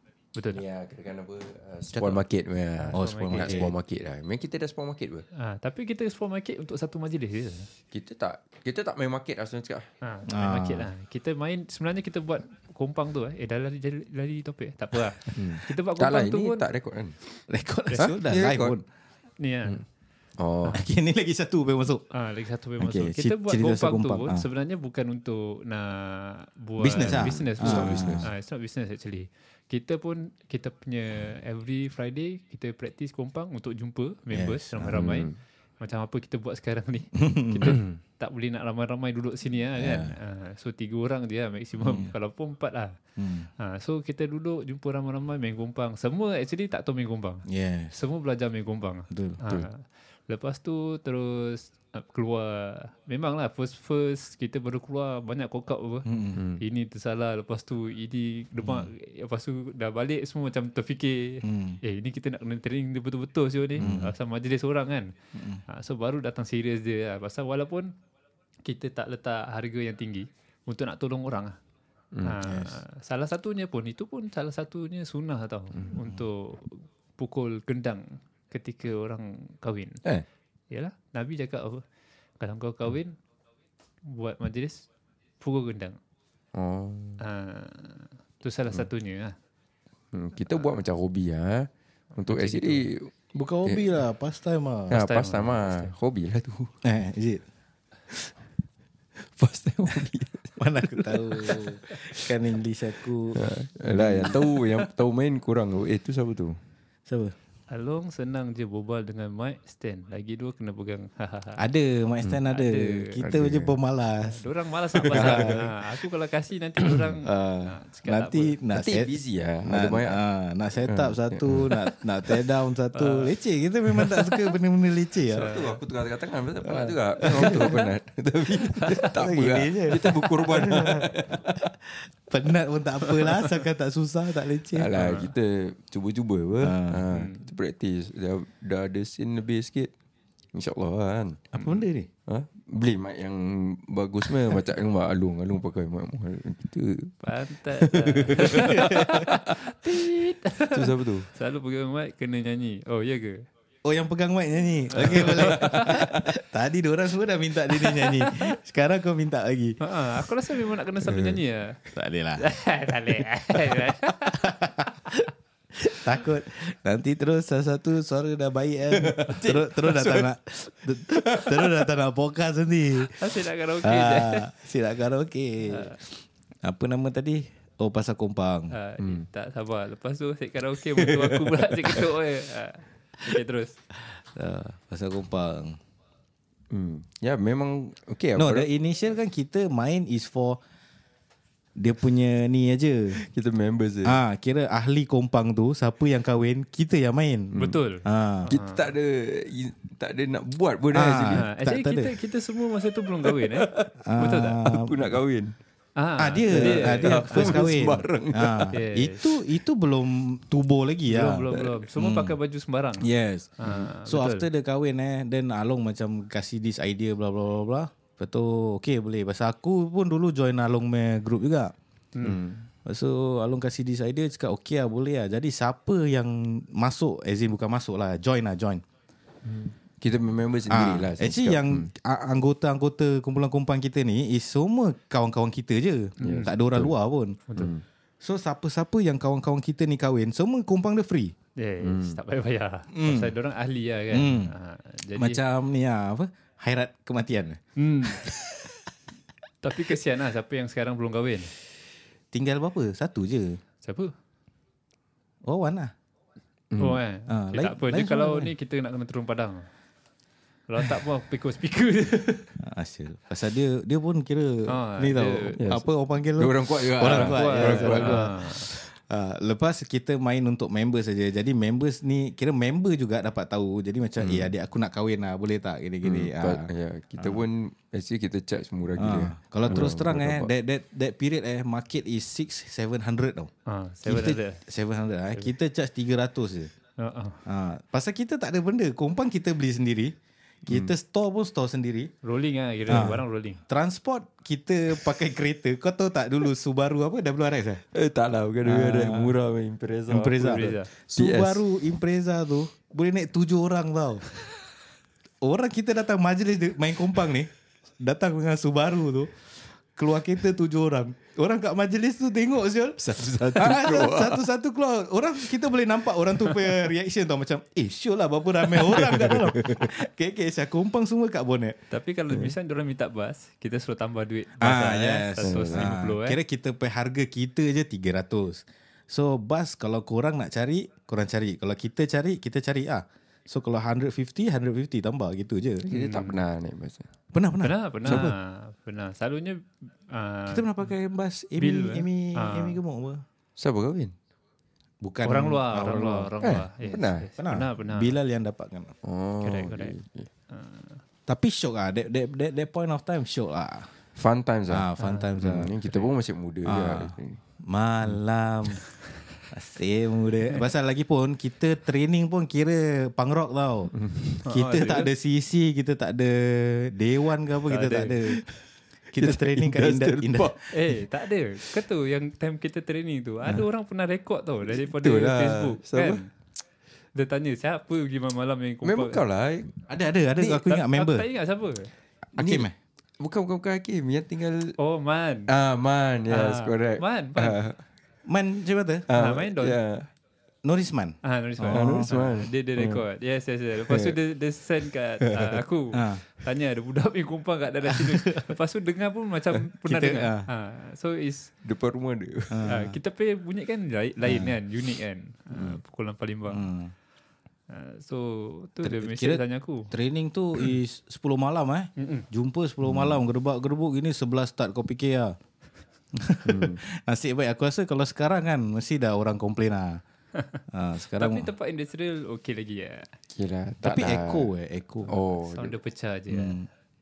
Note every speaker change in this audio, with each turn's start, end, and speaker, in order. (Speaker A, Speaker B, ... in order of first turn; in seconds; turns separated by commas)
Speaker A: 0.3-0.6, Speaker B: 0.5-5.2, Speaker C: 1.9-2.2, Speaker A: 2.8-3.7, Speaker C: 2.9-3.7, Speaker A: 5.3-7.7, Speaker B: 7.9-9.8, Speaker A: 10.0-16.6, Speaker C: 10.3-10.9, Speaker B: 15.3-17.1, Speaker C: 17.5-18.8, Speaker B: 17.9-18.8, Speaker A: 19.4-19.8, Speaker B: 20.4-20.8, Speaker C: 20.7-22.1, Speaker A: 22.1-43.0, Speaker C: 22.8-24.5, Speaker C: 26.8-28.3, Speaker B: 27.0-28.3, Speaker C: 34.3-35.1, Speaker B: 34.9-35.4, Speaker C: 37.1-37.8, Speaker B: 37.7-38.0, Speaker C: 39.8-40.1, Speaker C: 41.8-42.1, Speaker C: 43.2-43.5, Speaker A: 43.6-65.1, Speaker C: 47.5-47.9, Speaker C: 49.1-49.4, Speaker C: 56.0-56.4, Speaker B: 56.4-56.6, Speaker C: 58.6-58.9, Speaker C: 61.4-61.8, Speaker C: 63.8-64.1, Speaker C: 65.3-65.6, Speaker A: 65.7-67.9, Speaker A: 68.6-71.6, Speaker B: 72.1-72.4, Speaker A: 72.2-80.0, Speaker C: 72.4-72.8, Speaker A: 80.7-81.8, Speaker A: 82.4-83.2, Speaker A: 84.0-84.9, Speaker A: 85.4-86.0, Speaker B: 86.5-87.2, Speaker A: 87.2-89.3, Speaker B: 90.1-93.1, Speaker A: 92.2-92.8, Speaker C: 93.3-95.0, Speaker A: 94.9-95.9, Speaker B: 94.9-96.7, Speaker C: 96.8-97.4, Speaker B: 99.2-102.4, Speaker C: 100.6-104.4, Speaker B: 103.3-106.6, Speaker C: 107.1-107.3, Speaker A: 107.7-111.6, Speaker C: 111.6-114.4, Speaker A: 112.5-113.2, Speaker B: 113.2-113.8, Speaker A: 114.3-118.5, Speaker C: 115.0-115.7, Speaker B: 115.1-115.5, Speaker C: 117.2-119.1, Speaker B: 118.8-120.2, Speaker C: 119.6-125.5, Speaker B: 120.8-122.4, Speaker A: 123.0-123.3, Speaker B: 124.0-124.3, Speaker A: 125.3-125.7, Speaker B: 125.4-131.7, Speaker C: 126.6-127.8, Speaker A: 127.3-127.7, Speaker C: 129.1-131.1, Speaker C: 131.7-134.9, Speaker B: 134.7-139.9, Speaker A: 134.9-135.3, Speaker C: 136.6-137.0, Speaker A: 137.1-137.4, Speaker B: 140.5-141.7, Speaker C: 141.5-142.1, Speaker B: 142.3-149.5, Speaker A: 147.2-153.4, Speaker C: 148.5-149.3, Speaker B: 150.7-151.3, Speaker C: 153.8-159.8, Speaker A: 154.9-155.7, Speaker B: 155.0-156.3, Speaker A: 159.8-161.7, Speaker B: 161.0-161.4, Speaker C: 161.9-162.4, Speaker A: 162.4-164.4, Speaker C: 164.3-165.3, Speaker C: 165.8-173.2, Speaker B: 168.9-170.3, Speaker B: 171.1-171.9, Speaker A: 173.1-174.5, Speaker C: 173.8-178.7, Speaker A: 175.7-176.0, Speaker A: 178.7-183.8, Speaker B: 179.0-179.2, Speaker B: 181.0-182.0, Speaker C: 184.2-185.8, Speaker B: 186.7-188.7, Speaker C: 188.3-190.6, Speaker C: 191.8-193.2, Speaker B: 193.1-194.2, Speaker C: 194.0-198.5, Speaker B: 197.5-197.8, Speaker A: 197.6-198.9, Speaker B: 198.5-201.5, Speaker C: 200.9-202.1, Speaker A: 201.3-204.6, Speaker B: 203.2-203.9, Speaker C: 204.0-205.2, Speaker B: 204.5-205.5, Speaker A: 206.0-207.7, Speaker C: 206.2-212.3, Speaker B: 206.5-208.8, Speaker A: 208.7-209.2, Speaker A: 211.1-213.1, Speaker C: 213.0-221.7, Speaker A: 213.6-214.5, Speaker B: 222.2-222.7, Speaker C: 222.8-228.8, Speaker B: 229.4-231.9, Speaker C: 230.7-237.4, Speaker A: 236.2-236.5, Speaker B: 236.2-236.9, Speaker B: 237.6-237.8, Speaker C: 238.2-241.3, Speaker A: 241.6-245.4, Speaker B: 241.8-242.2, Speaker C: 242.9-243.3, Speaker C: 244.1-244.5, Speaker C: 245.2-248.5, Speaker A: 247.8-248.2, Speaker A: 249.6-251.5, Speaker C: 252.3-253.6, Speaker A: 253.8-254.1, Speaker C: 255.4-255.9, Speaker B: 256.7-257.0, Speaker A: 256.8-259.7, Speaker C: 257.3-258.5, Speaker A: 260.7-262.5, Speaker C: 262.6-277.4, Speaker A: 264.7-265.6, Speaker B: 265.6-268.3, Speaker A: 267.1-268.7, Speaker B: 274.2-274.5, Speaker B: 276.0-280.5, Speaker C: 279.0-283.5, Speaker A: 283.7-284.6, Speaker C: 284.0-286.7, Speaker A: 287.0-287.4, Speaker C: 287.4-290.1, Speaker C: 290.6-292.1, Speaker B: 290.7-290.9, Speaker A: 292.2-293.6, Speaker C: 292.9-297.8, Speaker B: 297.9-301.6, Speaker C: 298.6-299.3, Speaker C: 300.1-304.2, Speaker A: 300.4-300.9, Speaker C: 305.4-309.4, Speaker C: 309.9-321.8, Speaker B: 313.0-314.4, Speaker B: 316.4-316.9, Speaker B: 318.7-319.9, Speaker A: 321.9-326.4, Speaker C: 324.6-335.9, Speaker B: 325.4-325.9, Speaker B: 335.9-337.1, Speaker A: 335.9-336.4, Speaker C: 337.3-338.4, Speaker A: 337.6-340.7, Speaker B: 338.0-338.3, Speaker C: 340.5-343.2, Speaker A: 341.6-342.8, Speaker B: 343.6-344.1, Speaker C: 345.0-346.3, Speaker A: 345.2-348.1, Speaker B: 346.4-347.3, Speaker C: 347.4-348.9, Speaker B: 349.0-350.3, Speaker A: 349.4-349.9, Speaker A: 350.5-351.0, Speaker C: 351.3-353.9, Speaker B: 354.1-357.4, Speaker C: 354.7-355.7, Speaker A: 355.0-355.3, Speaker C: 356.6-357.1, Speaker C: 357.7-358.8, Speaker C: 359.5-363.9, Speaker B: 363.9-364.4, Speaker C: 364.5-368.6, Speaker A: 364.5-365.1, Speaker A: 367.7-368.4, Speaker C: 369.1-370.8, Speaker B: 369.2-370.6, Speaker A: 370.7-376.3, Speaker B: 374.6-376.2, Speaker A: 377.1-379.2, Speaker B: 378.8-379.8, Speaker C: 379.9-381.2, Speaker A: 380.6-381.9, Speaker C: 382.3-382.7, Speaker B: 382.4-382.7, Speaker B: 383.2-384.8, Speaker A: 384.8-385.5, Speaker B: 385.5-387.8, Speaker A: 386.3-387.6, Speaker C: 388.2-389.1, Speaker B: 389.1-390.1, Speaker A: 389.1-389.8, Speaker C: 390.6-392.1, Speaker A: 391.2-401.5, Speaker B: 391.6-393.0, Speaker B: 393.9-394.2, Speaker B: 395.2-395.6, Speaker C: 395.9-396.2, Speaker C: 398.1-398.4, Speaker C: 399.8-400.5, Speaker B: 401.6-402.7, Speaker C: 402.5-402.9, Speaker A: 402.7-406.7, Speaker C: 404.2-404.6, Speaker B: 405.5-405.8, Speaker C: 406.5-406.9, Speaker A: 407.7-409.9, Speaker C: 408.8-415.3, Speaker A: 412.0-412.2, Speaker B: 412.9-413.1, Speaker C: 416.1-420.0, Speaker B: 416.4-416.8, Speaker C: 420.7-421.5, Speaker A: 421.2-423.1, Speaker B: 423.3-424.5, Speaker C: 423.8-425.1, Speaker B: 425.1-425.8, Speaker A: 425.4-426.6, Speaker C: 426.3-426.6